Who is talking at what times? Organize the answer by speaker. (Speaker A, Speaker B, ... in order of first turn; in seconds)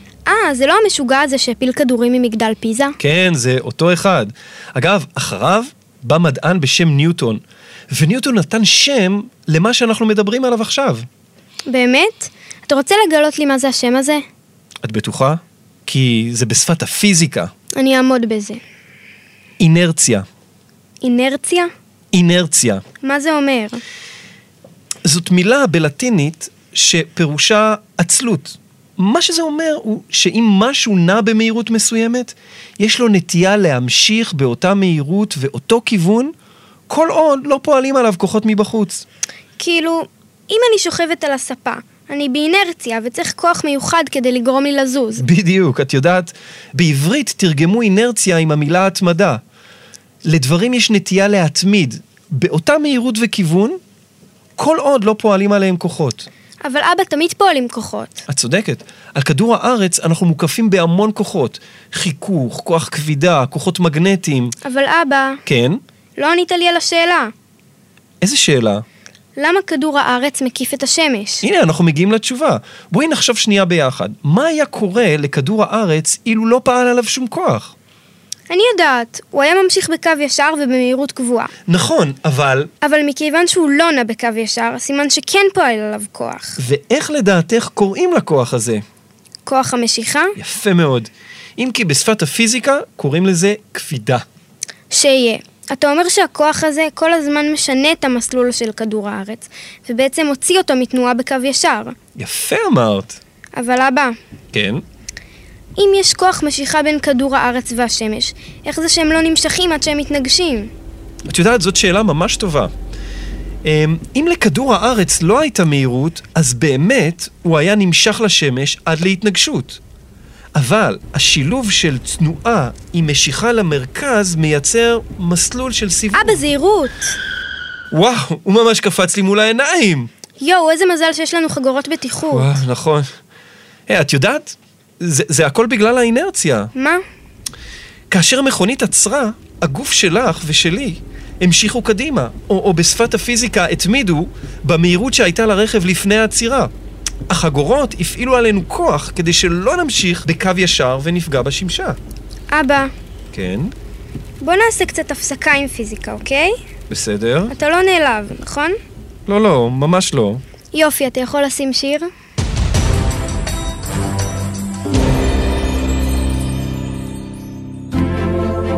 Speaker A: 0.3-2.9, 11.7-14.2, 17.8-18.6, 21.0-21.7, 23.0-23.8, 39.6-45.2, 56.6-58.2, 64.6-65.4, 66.2-67.3, 69.3-71.4, 78.5-81.5, 82.8-86.6, 89.5-90.3, 94.9-102.0, 103.5-104.1, 105.8-110.7, 126.1-127.2, 130.4-132.6, 136.7-137.0, 152.5-152.9, 154.4-156.5, 157.5-158.8, 160.7-162.1
Speaker B: 3.0-11.1, 14.8-17.5, 19.6-20.2, 22.1-22.8, 25.0-36.3, 36.9-39.0, 45.2-49.4, 50.2-53.8, 54.6-56.3, 58.3-64.5, 65.5-65.8, 68.2-68.8, 71.4-77.7, 81.7-82.7, 86.6-88.8, 90.4-94.2, 102.2-103.2, 104.5-104.8, 111.3-112.7, 113.6-119.8, 120.5-126.4, 127.9-130.1, 132.3-133.1, 133.9-136.7, 138.1-146.7, 147.3-152.0, 153.3-153.7, 156.9-157.5, 159.3-160.4